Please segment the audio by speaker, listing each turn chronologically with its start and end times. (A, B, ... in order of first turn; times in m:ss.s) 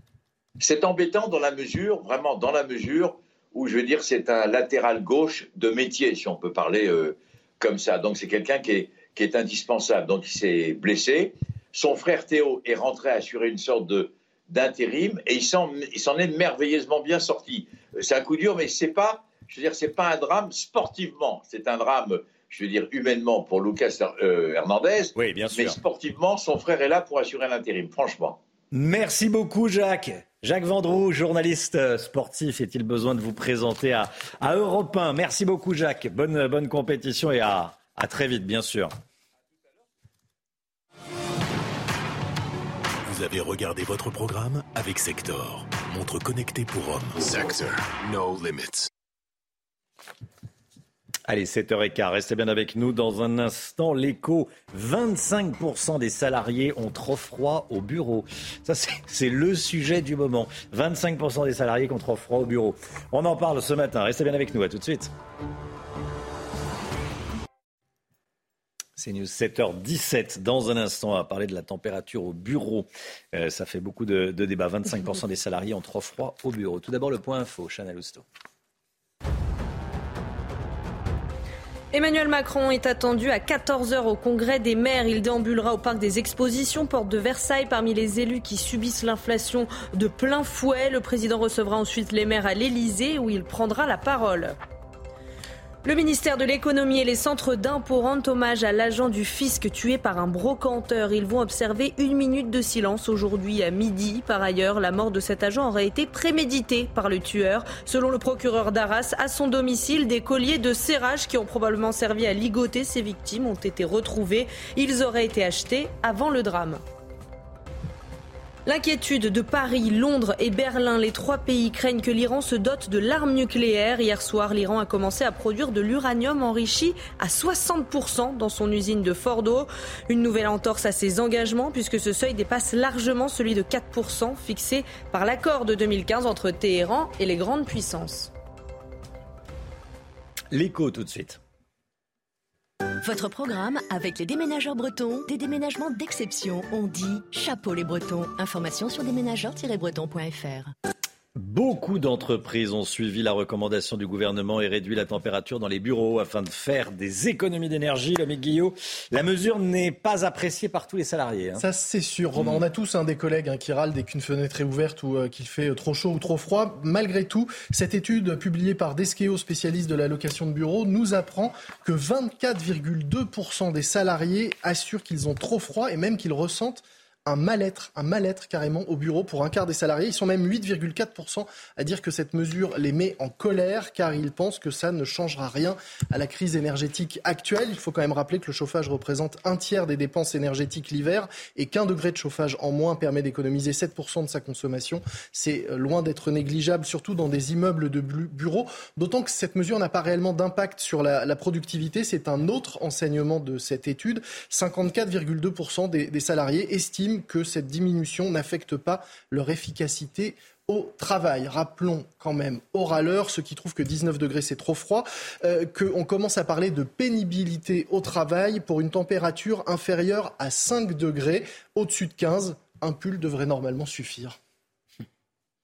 0:00.6-0:28.4 A
0:25.2-0:25.8 B
0:28.7-0:38.9 B
0:43.0-0:48.9 C
0:51.3-1:05.1 B
1:09.0-1:18.2 B
1:21.9-1:34.6 D
1:35.8-1:56.8 D
1:58.6-2:18.3 D
2:20.5-2:21.4 B
2:23.0-2:30.7 E
2:31.3-2:41.6 B
2:41.6-3:44.4 F